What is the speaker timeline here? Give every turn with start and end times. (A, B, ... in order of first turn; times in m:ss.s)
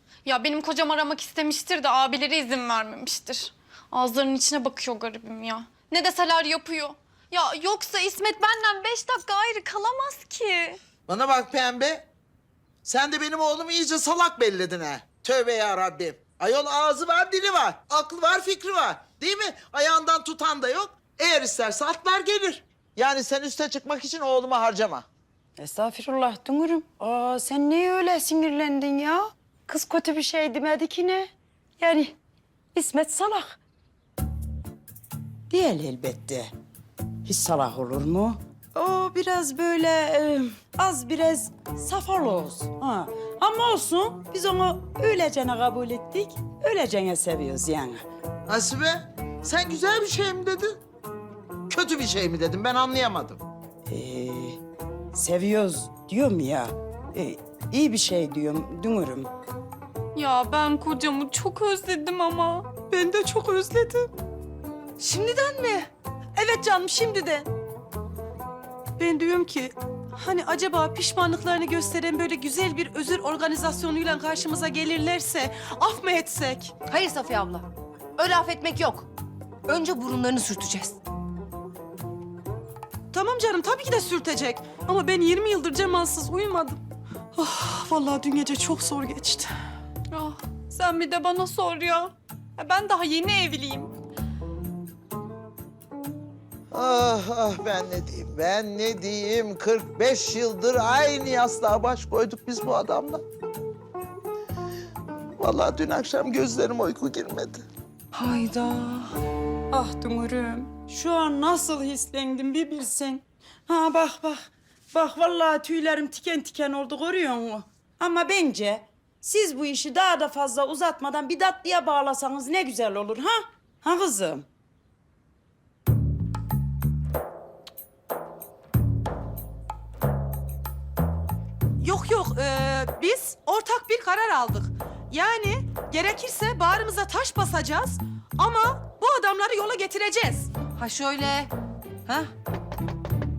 0:00.2-0:10.8 A
0:11.1-0:12.0 B
0:12.8-0:25.0 B
0:25.6-0:32.1 C
0:32.7-0:33.6 C
0:35.5-0:36.5 C
0:37.2-0:48.0 C
0:48.5-0:50.8 B
0:51.7-0:53.4 B
0:53.9-0:54.6 C
0:55.1-0:59.3 C
1:00.1-1:02.7 A
1:02.8-1:04.1 D
1:05.0-1:07.5 D
1:09.0-1:16.7 D
1:16.8-1:19.1 E
1:19.6-1:21.0 E
1:23.1-1:26.8 D
1:27.3-1:29.5 D
1:30.1-1:33.9 A
1:36.7-1:43.2 B
1:45.4-1:47.6 B
1:48.1-1:49.0 C
1:49.7-2:04.5 C
2:11.8-2:20.5 D
2:20.7-2:21.5 E
2:22.0-2:22.3 E